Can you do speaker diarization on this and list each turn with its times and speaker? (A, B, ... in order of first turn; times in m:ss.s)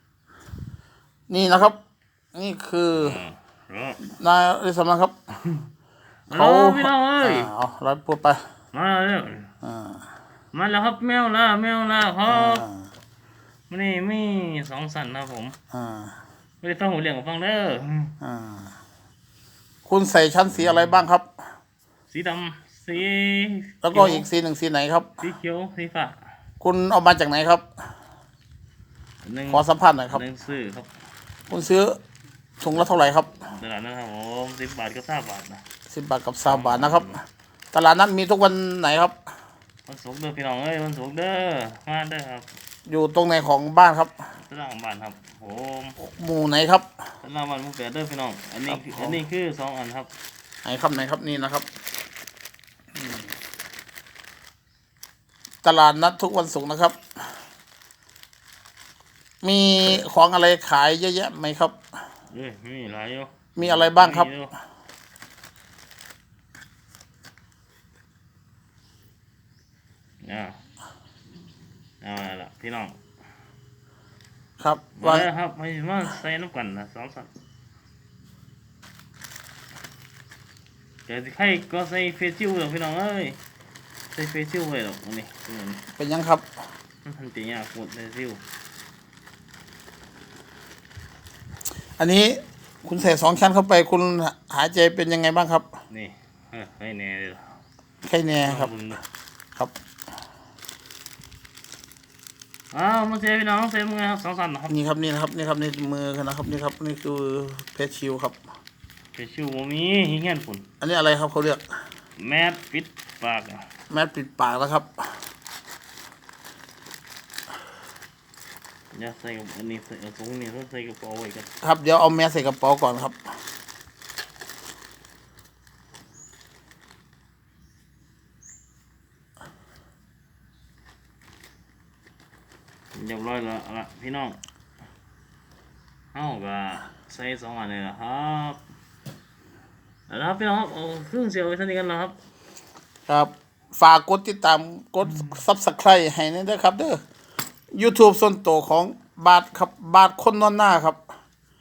0:01.3-0:01.8 A
0:02.4-0:03.2 A
0:03.0-0:04.0 B
0:04.2-0:05.2 A
0:06.3-0:07.5 B
0:06.4-0:08.4 A
0:08.7-0:09.5 B
0:09.6-0:10.0 A
0:10.5-0:12.7 B
0:12.3-0:12.8 A
0:13.7-0:15.6 B
0:15.7-0:16.2 A
0:16.6-0:18.2 B
0:18.2-0:18.7 A
0:19.8-0:21.3 A
0:20.5-0:21.1 B
0:22.1-0:24.3 B
0:23.8-0:25.1 A
0:25.2-0:26.2 B
0:26.6-0:27.7 A
0:29.2-0:30.9 B
0:29.5-0:30.2 A
0:31.5-0:32.0 A
0:32.6-0:33.4 A
0:33.5-0:35.6 B
0:35.9-0:37.1 A
0:36.5-0:37.2 B
0:37.7-0:39.2 A
0:39.9-0:42.5 B
0:42.9-0:44.1 A
0:44.4-0:46.0 B
0:46.0-0:46.9 A
0:47.2-0:50.1 B
0:48.7-0:49.2 A
0:50.6-0:51.7 A
0:53.0-0:53.3 A
0:55.6-0:57.0 A
0:59.4-1:01.8 A
1:02.3-1:04.5 B
1:03.6-1:04.3 A
1:10.2-1:10.6 B
1:12.0-1:13.0 B
1:14.6-1:15.3 A
1:15.0-1:17.3 B
1:21.1-1:23.4 B
1:24.1-1:25.8 B
1:25.9-1:26.5 A
1:27.1-1:28.4 B
1:32.0-1:35.7 A
1:35.9-1:37.5 B
1:38.0-1:38.7 A
1:38.4-1:39.0 B
1:42.7-1:44.8 B
1:44.7-1:48.4 A
1:49.1-1:50.7 B
1:50.8-1:51.6 A
1:52.2-1:53.6 B
1:53.9-1:55.0 A
1:58.9-2:01.5 B
2:01.6-2:03.2 A
2:12.9-2:14.4 B
2:16.1-2:18.6 B
2:20.1-2:22.2 B
2:23.1-2:27.0 A
2:27.7-2:31.0 A